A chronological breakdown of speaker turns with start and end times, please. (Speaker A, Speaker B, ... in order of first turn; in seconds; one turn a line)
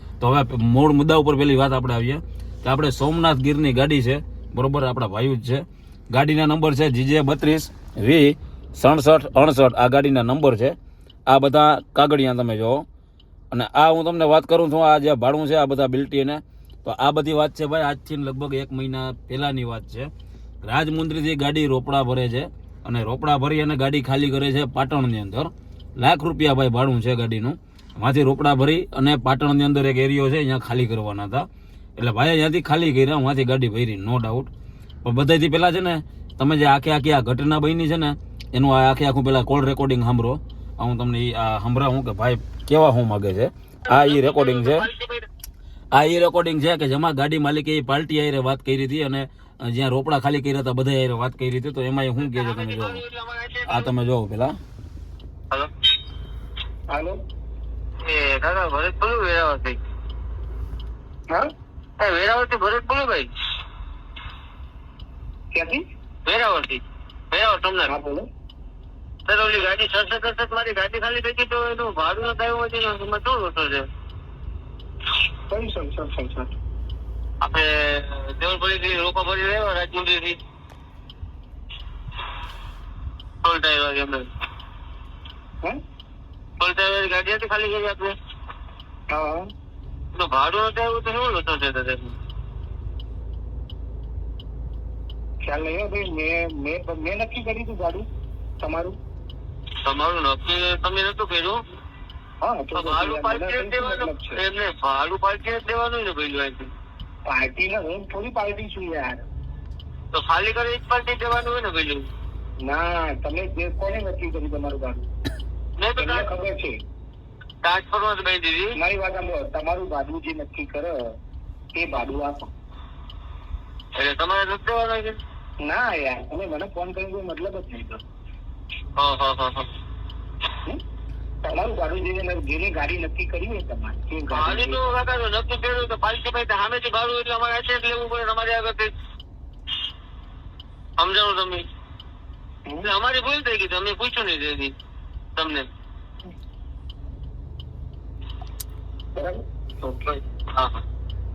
Speaker A: 0.2-10.8
Speaker A: 11.3-12.8
Speaker A: 13.5-20.1
Speaker A: 20.6-31.5
Speaker A: 32.0-34.5
Speaker A: 35.0-44.9
Speaker B: 43.9-45.3
Speaker A: 45.9-53.0
Speaker B: 52.2-53.9
Speaker A: 53.7-54.6
Speaker C: 56.9-57.2
Speaker B: 58.0-59.8
Speaker B: 62.0-63.3
Speaker C: 65.5-65.8
Speaker B: 66.2-67.9
Speaker C: 67.9-68.3
Speaker B: 69.3-73.9
Speaker C: 75.5-76.5
Speaker B: 77.4-80.4
Speaker B: 83.4-84.3
Speaker B: 86.6-88.2
Speaker C: 89.1-89.4
Speaker B: 90.1-92.2
Speaker C: 95.4-98.0
Speaker C: 98.6-99.0
Speaker B: 99.8-101.6
Speaker C: 102.4-104.4
Speaker B: 102.8-106.7
Speaker C: 107.3-109.2
Speaker B: 110.1-112.1
Speaker C: 112.6-115.0
Speaker B: 115.8-116.2
Speaker C: 116.0-116.8
Speaker B: 117.6-118.7
Speaker C: 118.8-121.0
Speaker C: 121.7-122.5
Speaker B: 124.0-125.2
Speaker C: 125.6-128.0
Speaker B: 129.0-129.7
Speaker C: 131.4-135.1
Speaker B: 134.3-138.9
Speaker B: 141.0-141.7
Speaker C: 142.7-142.9
Speaker B: 142.8-144.8
Speaker B: 145.3-145.7
Speaker C: 149.2-150.2
Speaker B: 150.5-150.8